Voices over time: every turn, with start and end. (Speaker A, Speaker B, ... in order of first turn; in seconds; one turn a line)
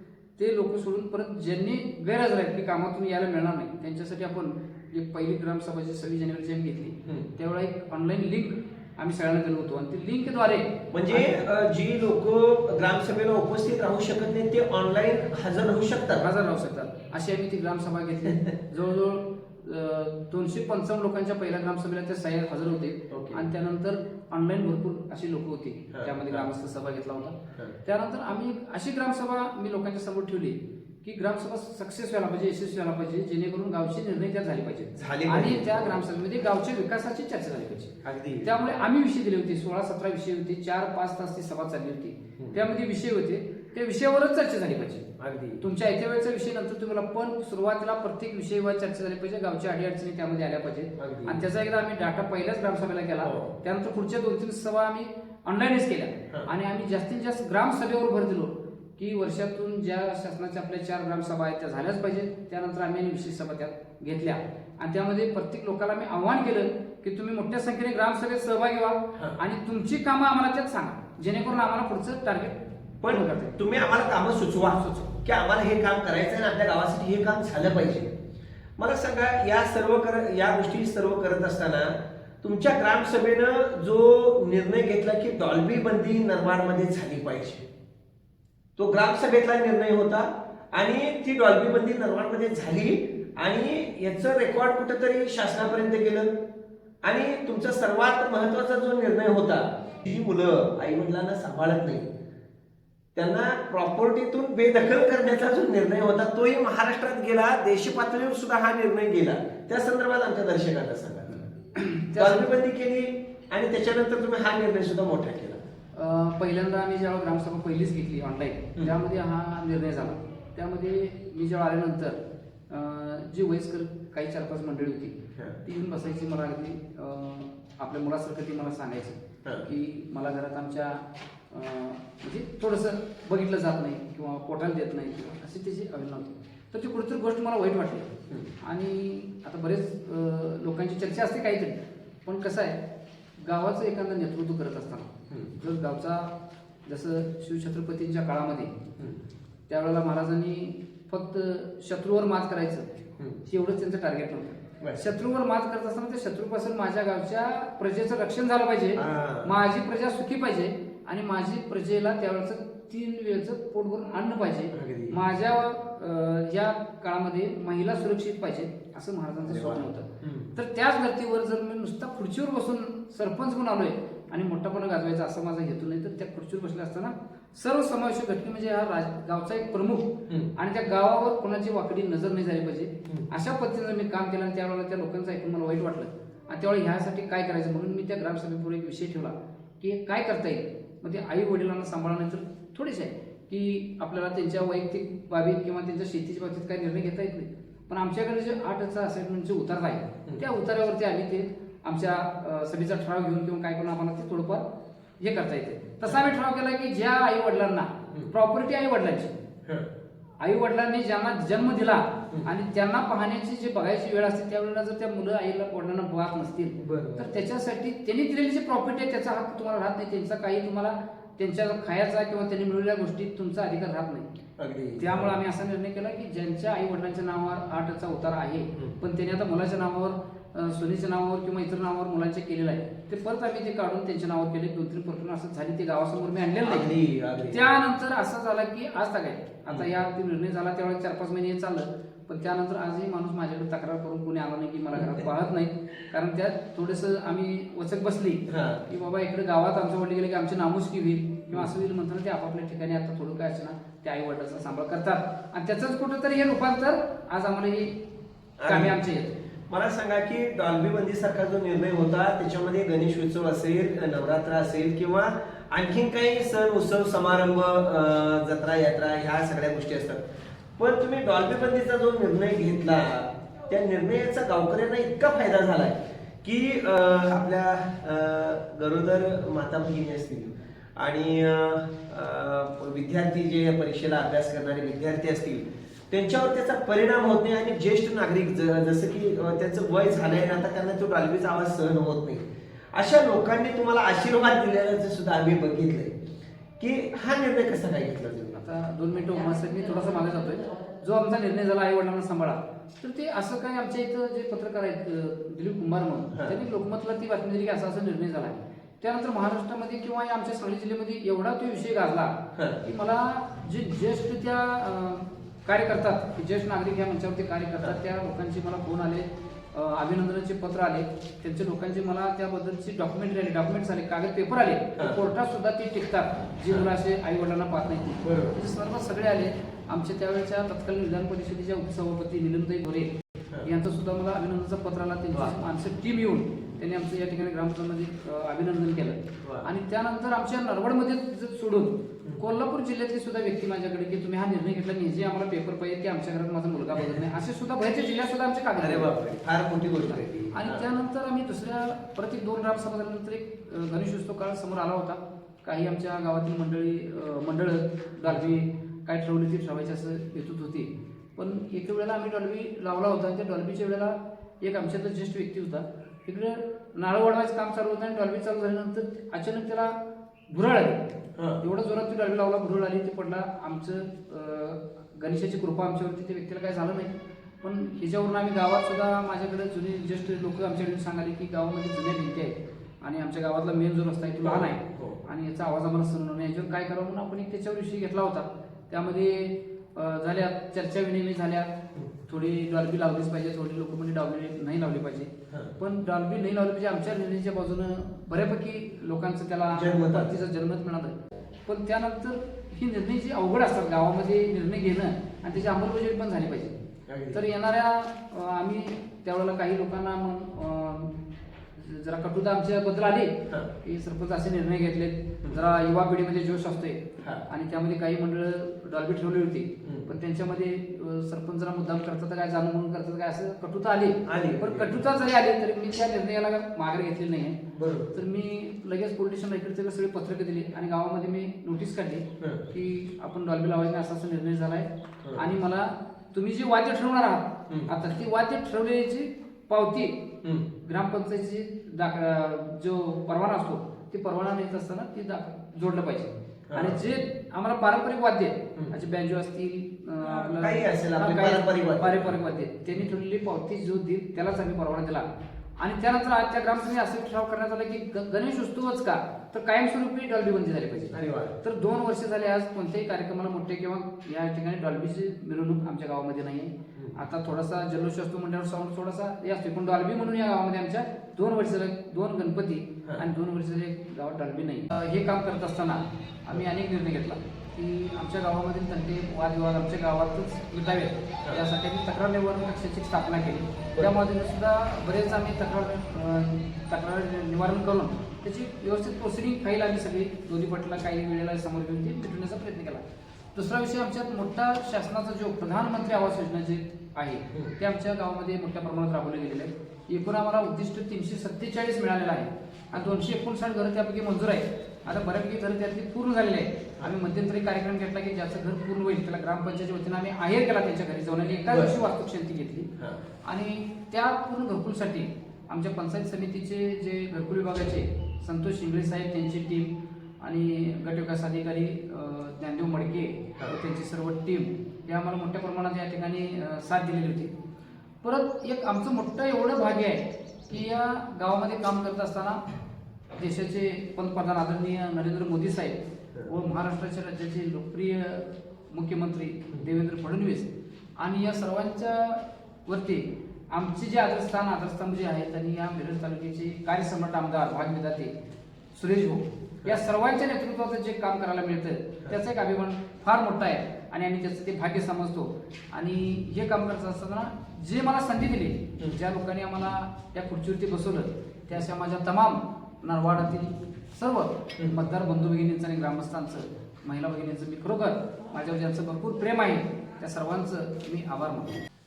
Speaker A: 0.4-11.3
Speaker B: 10.9-16.2
Speaker A: 16.2-45.1
Speaker B: 23.1-23.4
Speaker B: 25.9-26.5
Speaker B: 34.9-36.0
Speaker B: 38.0-38.5
Speaker B: 45.2-45.6
Speaker A: 45.6-73.6
Speaker B: 51.0-51.4
Speaker B: 53.2-53.5
Speaker B: 73.0-78.1
Speaker A: 74.6-75.1
Speaker B: 78.8-87.7
Speaker B: 88.8-96.3
Speaker B: 97.0-102.1
Speaker B: 103.1-111.4
Speaker A: 111.7-112.5
Speaker B: 112.2-115.6
Speaker A: 115.9-142.8
Speaker A: 143.4-146.3
Speaker B: 145.3-145.5
Speaker A: 146.8-148.8
Speaker B: 149.0-149.2
Speaker A: 149.7-152.9
Speaker A: 153.4-204.6
Speaker B: 158.9-159.6
Speaker B: 164.7-165.2
Speaker B: 169.4-170.5
Speaker A: 205.2-209.3
Speaker A: 210.4-224.3
Speaker B: 216.8-217.3
Speaker B: 224.6-225.3
Speaker A: 225.0-236.9
Speaker B: 236.6-237.7
Speaker A: 237.5-258.0
Speaker B: 245.0-245.2
Speaker B: 248.5-248.8
Speaker B: 258.6-259.0
Speaker A: 258.6-259.4
Speaker B: 259.7-270.2
Speaker B: 270.8-296.2
Speaker B: 296.8-298.6
Speaker A: 298.5-349.1
Speaker B: 306.3-306.6
Speaker B: 312.5-312.8
Speaker B: 328.2-328.6
Speaker B: 339.4-339.7
Speaker B: 346.9-347.2
Speaker B: 348.8-350.9
Speaker A: 350.1-369.9
Speaker A: 370.5-371.0
Speaker B: 371.4-371.6
Speaker A: 371.6-391.7
Speaker B: 384.4-385.2
Speaker A: 392.3-406.7
Speaker B: 399.7-400.3
Speaker B: 407.1-407.4
Speaker A: 407.3-411.1
Speaker A: 411.8-427.6
Speaker B: 417.2-417.4
Speaker B: 419.8-420.1
Speaker B: 424.2-425.0
Speaker B: 427.7-428.1
Speaker A: 428.1-440.3
Speaker B: 432.4-432.6
Speaker A: 440.8-455.3
Speaker B: 446.7-447.0
Speaker B: 450.2-452.4
Speaker A: 455.8-493.0
Speaker B: 461.1-461.5
Speaker A: 493.5-512.9
Speaker B: 511.7-511.9
Speaker B: 513.0-513.2
Speaker A: 513.4-527.5
Speaker A: 528.2-532.6
Speaker A: 533.3-548.3
Speaker A: 548.9-571.8